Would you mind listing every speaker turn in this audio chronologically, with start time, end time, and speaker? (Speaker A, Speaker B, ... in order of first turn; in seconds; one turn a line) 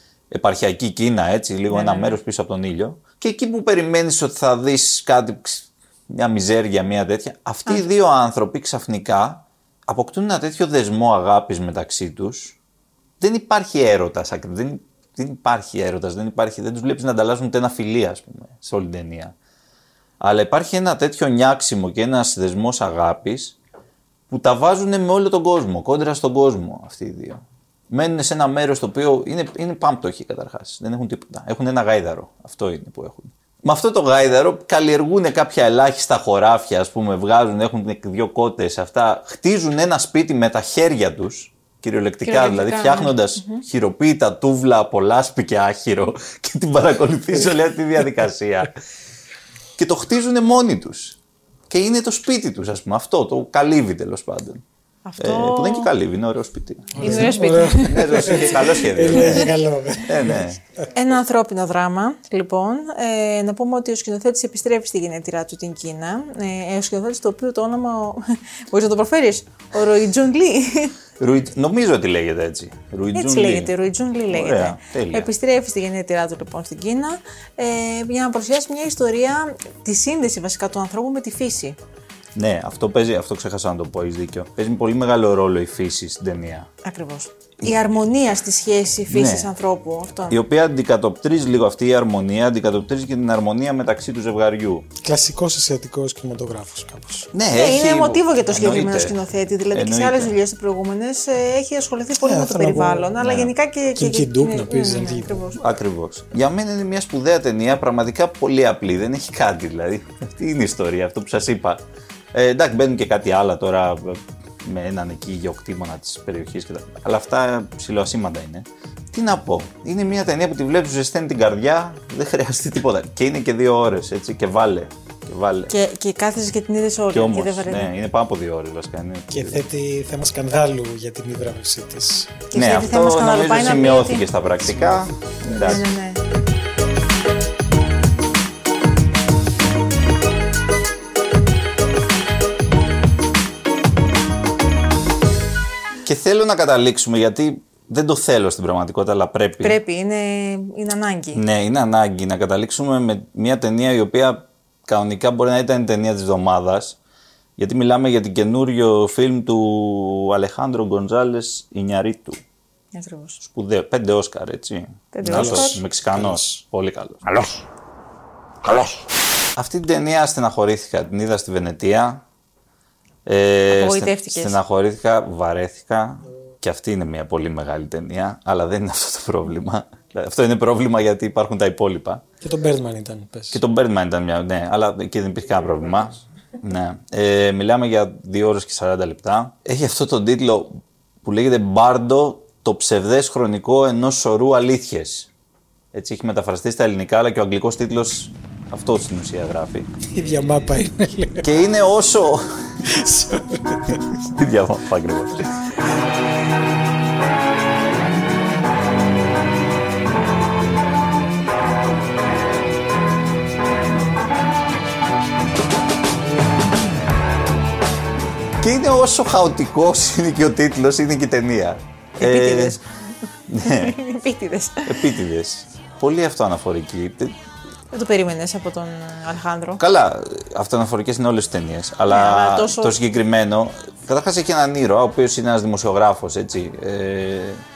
Speaker A: 0.3-12.6
Speaker B: 1.7-2.2
Speaker A: 13.2-19.3
Speaker A: 20.2-23.6
Speaker A: 24.3-48.7
Speaker B: 42.2-43.6
Speaker A: 49.8-51.2
Speaker A: 51.7-54.6
Speaker B: 55.0-55.9
Speaker A: 55.2-60.6
Speaker C: 57.0-60.5
Speaker B: 57.0-58.5
Speaker B: 60.9-71.0
Speaker A: 71.2-73.7
Speaker B: 73.1-81.8
Speaker A: 74.3-75.3
Speaker A: 82.3-86.7
Speaker B: 86.8-90.4
Speaker A: 89.1-89.5
Speaker A: 90.3-94.8
Speaker C: 95.0-97.3
Speaker A: 97.3-99.2
Speaker B: 97.5-105.6
Speaker A: 99.7-100.3
Speaker C: 102.2-103.2
Speaker A: 103.2-103.5
Speaker C: 103.9-105.4
Speaker A: 105.6-111.8
Speaker A: 112.3-125.7
Speaker B: 125.7-127.9
Speaker A: 127.1-129.6
Speaker C: 129.3-132.4
Speaker B: 132.5-134.3
Speaker A: 132.5-135.8
Speaker B: 135.5-136.2
Speaker A: 146.0-149.8
Speaker B: 149.6-151.4
Speaker A: 151.3-157.0
Speaker A: 157.6-162.4
Speaker B: 162.9-163.4
Speaker A: 163.4-167.2
Speaker B: 165.1-165.8
Speaker C: 165.2-166.5
Speaker A: 169.6-172.2
Speaker A: 173.2-182.2
Speaker B: 173.7-174.6
Speaker C: 182.4-183.6
Speaker A: 183.5-195.3
Speaker A: 195.9-199.9
Speaker C: 200.1-201.6
Speaker A: 201.4-202.5
Speaker C: 202.8-204.2
Speaker A: 204.3-205.5
Speaker A: 218.6-222.8
Speaker B: 222.2-222.8
Speaker A: 223.5-223.9
Speaker B: 223.6-225.1
Speaker A: 224.8-227.3
Speaker B: 227.9-229.8
Speaker A: 229.8-237.6
Speaker B: 232.1-233.0